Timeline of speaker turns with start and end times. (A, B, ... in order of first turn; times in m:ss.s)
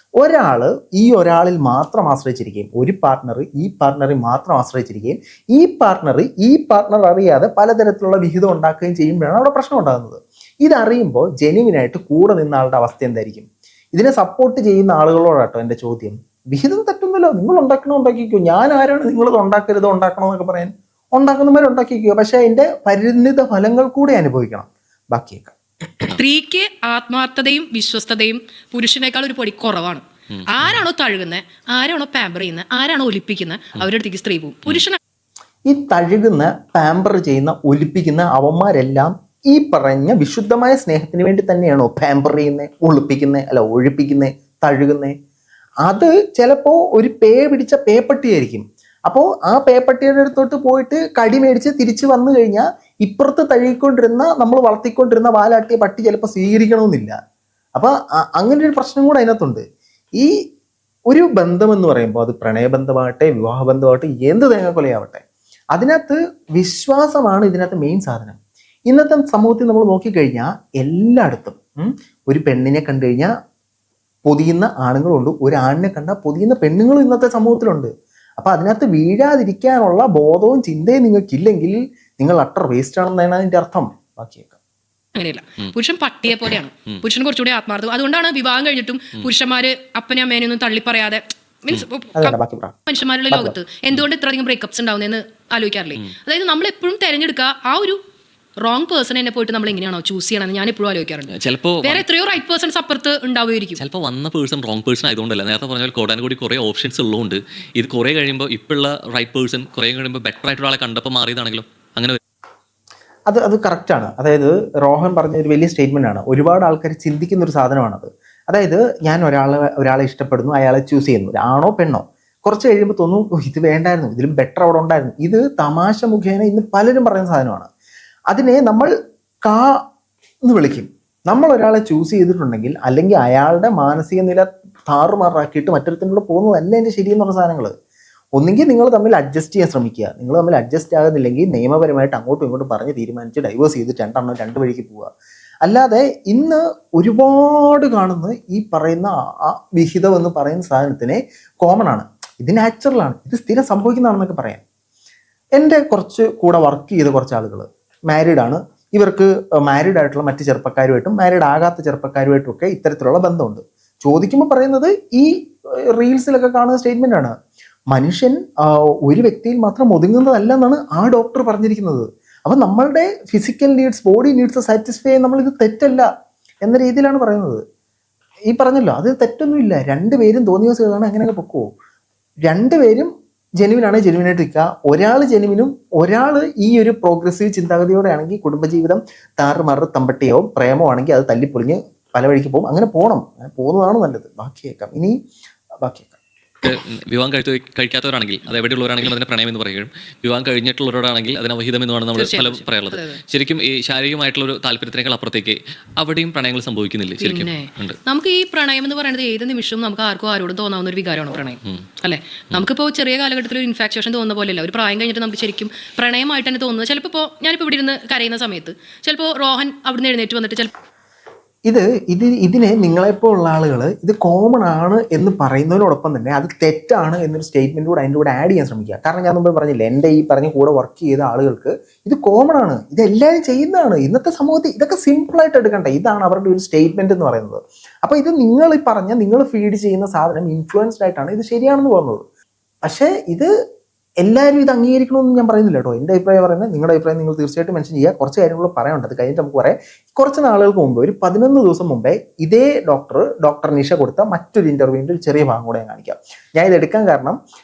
0:00.2-0:26.1 A
0:26.1-0:35.0 B
0:30.3-0:30.8 C
0:35.7-0:45.1 A
0:45.8-0:57.1 A
0:57.8-0:59.6 A
1:01.1-1:13.3 A
1:14.2-1:24.6 A
1:25.2-1:32.3 B
1:32.2-1:32.8 A
1:32.9-1:38.0 B
1:33.3-1:33.6 A
1:38.6-1:43.8 B
1:41.3-1:42.0 C
1:43.8-1:52.2 C
1:53.3-2:07.7 A
2:08.3-2:08.9 A
2:09.4-2:09.8 A
2:10.4-2:17.7 A
2:18.4-2:25.1 A
2:25.6-2:34.6 A
2:35.6-2:47.3 A
2:47.9-2:56.1 A
2:56.6-2:57.6 A
2:58.5-3:01.7 A
3:02.5-3:15.2 A
3:15.8-3:16.2 A
3:16.6-3:28.0 C
3:22.1-3:23.2 B
3:27.2-3:40.7 B
3:41.7-4:02.2 A
4:02.8-4:03.5 A
4:04.2-4:17.4 A